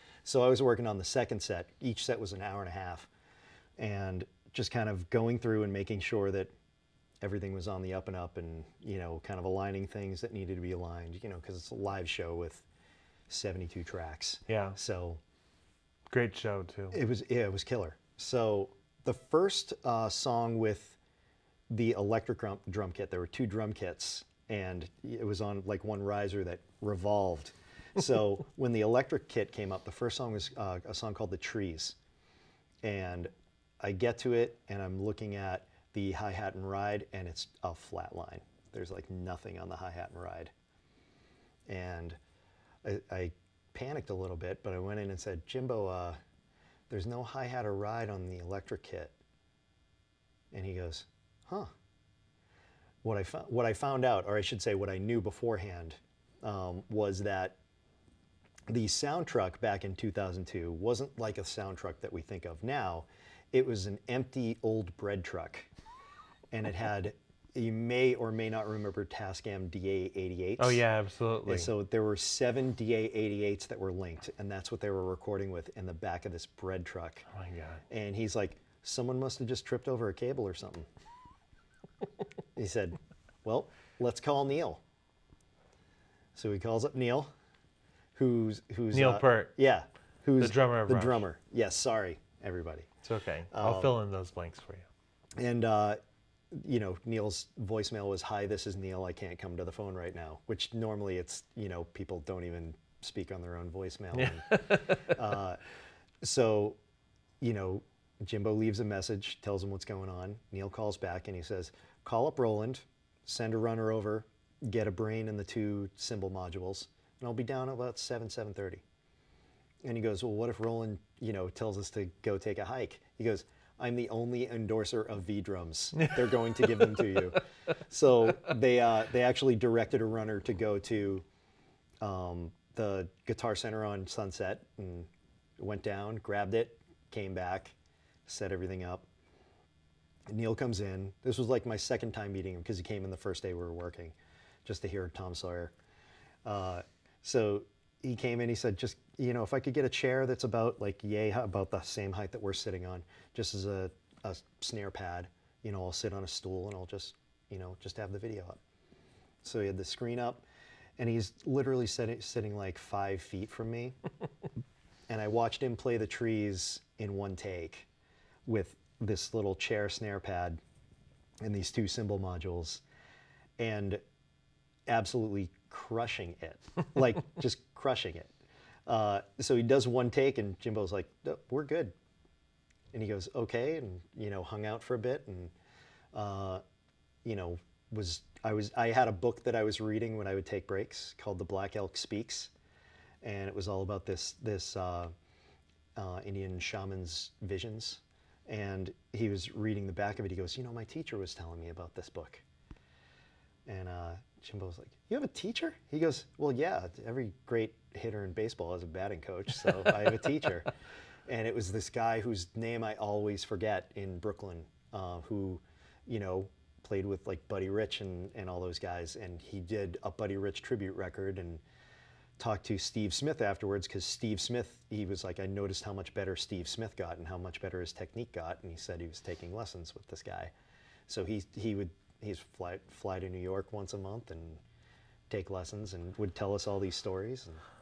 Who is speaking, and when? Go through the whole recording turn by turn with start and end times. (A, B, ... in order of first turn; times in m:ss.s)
0:00.2-0:03.1 A
0:03.8-0:06.5 A
0:07.2-0:12.6 A
0:13.3-0:15.2 A
0:14.5-0:14.8 B
0:16.1-0:17.0 B
0:16.9-0:21.0 A
0:21.7-0:32.0 A
0:32.8-0:40.5 A
0:41.7-0:42.2 A
0:42.8-0:46.2 A
0:46.9-0:49.1 A
0:50.5-0:51.7 A
0:53.0-0:57.6 A
0:58.7-1:05.7 A
1:06.5-1:10.8 A
1:10.6-1:11.7 B
1:11.4-1:17.2 A
1:17.3-1:17.8 B
1:17.9-1:20.8 A
1:22.5-1:24.8 A
1:26.3-1:27.3 A
1:28.1-1:32.9 A
1:28.9-1:29.5 B
1:30.4-1:31.2 B
1:33.0-1:34.8 B
1:33.5-1:33.9 A
1:35.4-1:36.0 A
1:36.5-1:45.6 A
1:44.1-1:45.2 B
1:46.2-1:46.8 A
1:47.4-1:58.8 A
1:59.8-2:11.2 A
2:06.9-2:07.4 B
2:12.0-2:17.7 A
2:18.2-2:19.0 A
2:20.3-2:25.7 A
2:26.4-2:38.6 A
2:39.4-2:40.4 A
2:41.0-2:44.0 A
2:45.1-2:47.9 A
2:48.4-2:50.6 A
2:51.4-2:52.8 A
2:53.6-2:54.0 A
2:54.9-2:58.3 A
2:58.9-3:01.9 A
3:02.9-3:05.5 A
3:06.1-3:06.6 A
3:07.2-3:12.5 A
3:13.2-3:15.1 A
3:16.0-3:22.4 A
3:23.6-3:30.7 A
3:31.3-3:41.6 A
3:42.4-3:50.5 A
3:51.1-3:54.6 A
3:55.3-3:57.6 A